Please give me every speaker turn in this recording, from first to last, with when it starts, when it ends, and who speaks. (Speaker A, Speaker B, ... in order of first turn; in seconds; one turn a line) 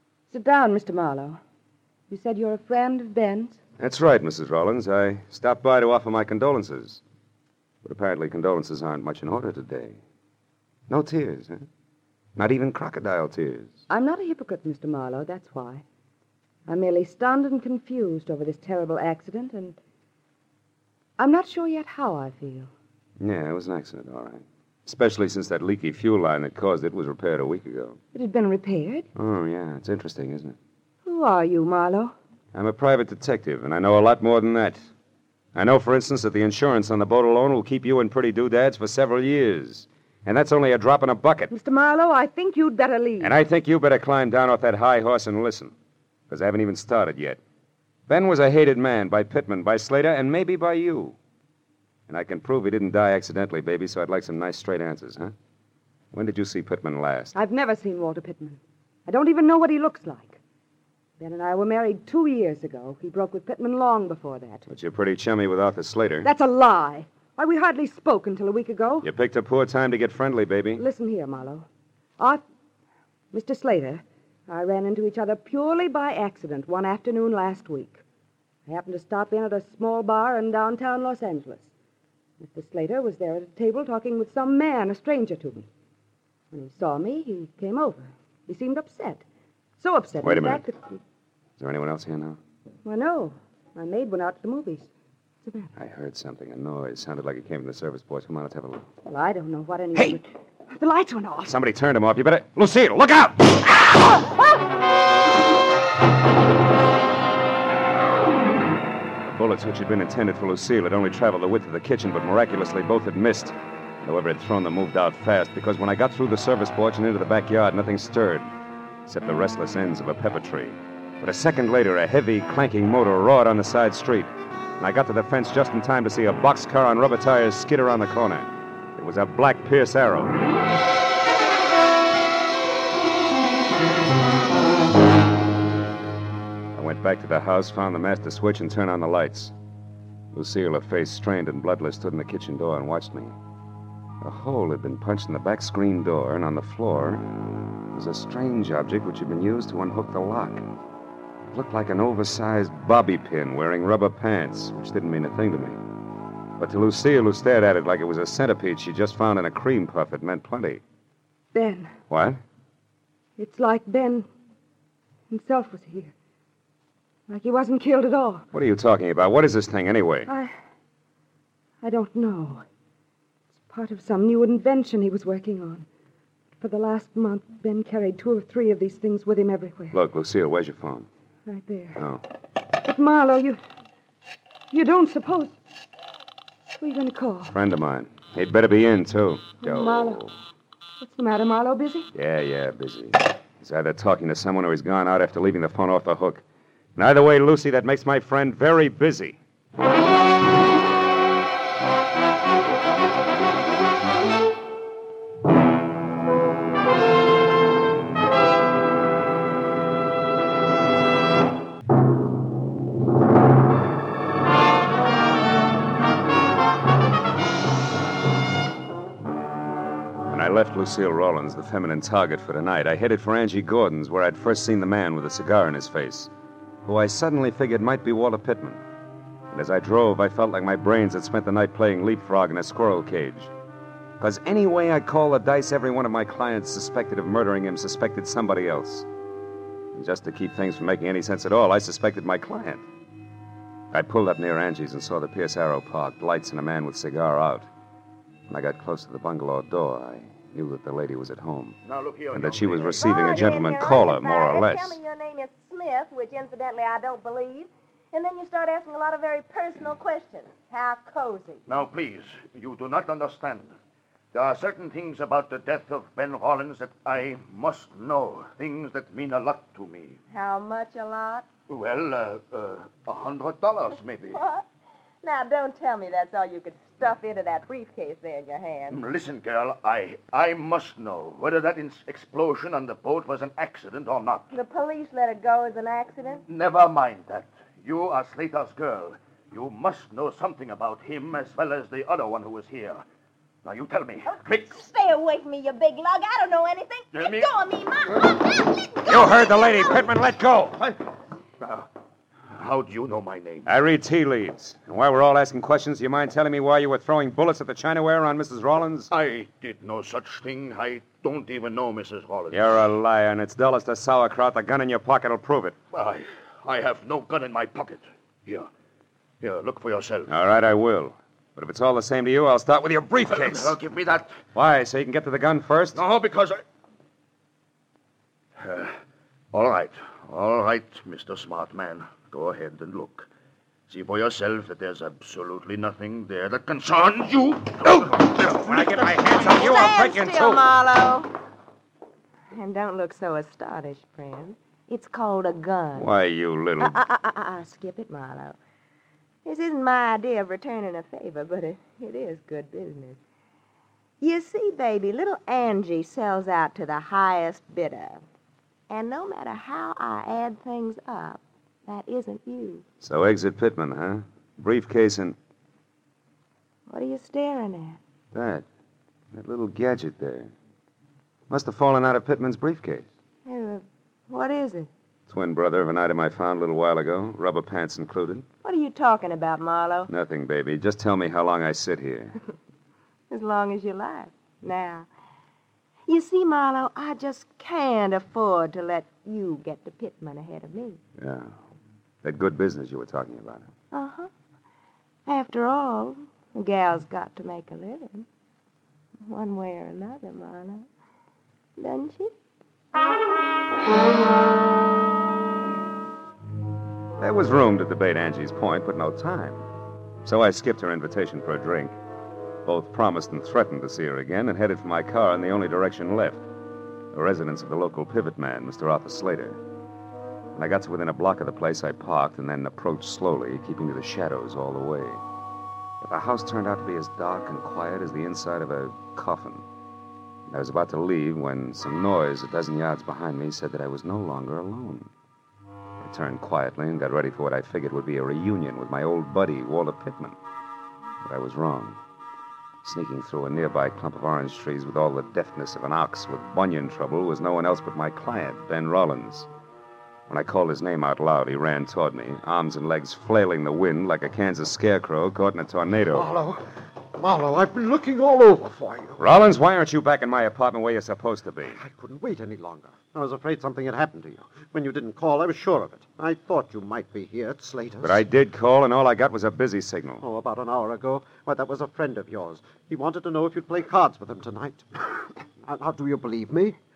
Speaker A: 0.3-1.4
Speaker A: 2.1-3.6
Speaker B: 3.8-7.0
Speaker B: 7.8-10.0
Speaker B: 10.9-11.7
Speaker B: 12.4-13.8
Speaker A: 13.9-15.8
Speaker A: 16.7-19.8
Speaker A: 21.2-22.7
Speaker B: 23.2-28.0
Speaker A: 28.1-29.1
Speaker B: 29.2-30.6
Speaker A: 31.1-32.1
Speaker B: 32.5-34.9
Speaker B: 35.5-41.5
Speaker A: 41.5-43.3
Speaker B: 43.2-45.7
Speaker B: 46.3-47.4
Speaker B: 48.1-51.2
Speaker B: 52.1-55.3
Speaker B: 56.1-57.3
Speaker A: 57.3-60.4
Speaker A: 61.2-64.6
Speaker B: 64.7-66.3
Speaker A: 66.2-69.1
Speaker B: 69.0-70.8
Speaker A: 70.8-71.7
Speaker A: 73.3-78.0
Speaker A: 78.7-81.7
Speaker A: 82.4-85.7
Speaker A: 86.5-89.2
Speaker A: 89.8-91.0
Speaker B: 90.2-90.7
Speaker B: 91.6-92.4
Speaker A: 92.8-94.9
Speaker A: 95.4-95.7
Speaker B: 95.8-98.9
Speaker A: 99.1-101.5
Speaker B: 100.0-100.2
Speaker B: 101.4-104.2
Speaker B: 109.2-118.5
Speaker B: 119.1-130.4
Speaker B: 136.8-139.5
Speaker B: 140.3-143.3
Speaker B: 144.2-147.2
Speaker B: 147.9-150.7
Speaker B: 151.5-155.8
Speaker B: 156.6-160.8
Speaker A: 161.5-161.9
Speaker B: 162.1-162.4
Speaker A: 163.4-164.3
Speaker A: 165.3-166.1
Speaker A: 167.3-168.4
Speaker B: 168.5-170.3
Speaker A: 170.3-170.6
Speaker A: 171.8-172.7
Speaker A: 173.7-175.9
Speaker A: 176.6-179.9
Speaker B: 179.9-181.1
Speaker A: 181.5-182.0
Speaker B: 182.0-182.2
Speaker A: 182.8-183.6
Speaker A: 184.7-185.6
Speaker A: 186.8-187.5
Speaker B: 187.5-190.3
Speaker A: 189.6-190.2
Speaker A: 191.0-192.1
Speaker B: 192.1-196.4
Speaker B: 197.0-199.4
Speaker B: 220.3-226.3
Speaker B: 226.9-228.8
Speaker B: 229.5-233.5
Speaker B: 234.2-239.1
Speaker B: 239.9-242.8
Speaker B: 243.9-247.7
Speaker B: 248.5-251.8
Speaker C: 251.8-253.6
Speaker B: 252.3-255.0
Speaker D: 253.0-261.6
Speaker C: 261.7-263.7
Speaker C: 264.3-270.2
Speaker D: 270.3-271.5
Speaker C: 271.7-274.4
Speaker D: 274.3-274.6
Speaker D: 275.2-279.0
Speaker C: 278.9-284.5
Speaker D: 284.5-286.4
Speaker C: 286.5-293.0
Speaker C: 293.6-294.8
Speaker D: 294.3-298.7
Speaker C: 297.1-297.5
Speaker B: 299.0-300.8
Speaker C: 301.6-301.9
Speaker C: 302.5-303.7
Speaker B: 303.6-309.1
Speaker C: 309.1-312.7
Speaker B: 312.5-315.8
Speaker C: 315.9-318.7
Speaker C: 319.4-320.3
Speaker B: 320.3-323.8
Speaker C: 323.3-324.3
Speaker B: 324.5-326.0
Speaker C: 325.9-326.6
Speaker C: 328.6-329.0
Speaker C: 329.5-333.3
Speaker C: 333.9-338.8
Speaker B: 338.5-340.6
Speaker D: 339.0-341.3
Speaker D: 342.5-346.1
Speaker B: 345.9-347.0
Speaker D: 346.8-348.6
Speaker D: 349.4-353.2
Speaker D: 354.2-358.2
Speaker D: 358.9-362.8
Speaker B: 363.0-365.4
Speaker D: 366.9-368.0
Speaker B: 368.3-368.6
Speaker B: 369.3-370.5
Speaker B: 371.5-373.1
Speaker D: 373.5-374.9
Speaker B: 375.3-378.5
Speaker D: 378.6-380.1
Speaker B: 380.1-382.4
Speaker D: 383.3-385.1
Speaker D: 386.1-391.0
Speaker B: 391.2-391.6
Speaker B: 392.2-393.7
Speaker D: 393.9-394.3
Speaker D: 395.3-398.3
Speaker D: 399.3-400.9
Speaker D: 401.8-402.3
Speaker B: 407.2-409.6
Speaker B: 410.2-412.0
Speaker B: 412.6-416.4
Speaker B: 417.1-419.6
Speaker B: 420.6-425.2
Speaker B: 426.0-429.6
Speaker B: 430.5-435.1
Speaker B: 436.0-440.4
Speaker B: 441.2-442.0
Speaker B: 442.8-449.5
Speaker B: 450.3-456.3
Speaker E: 456.1-459.2
Speaker B: 459.2-461.8
Speaker E: 461.7-468.2
Speaker B: 468.0-470.2
Speaker E: 470.2-476.8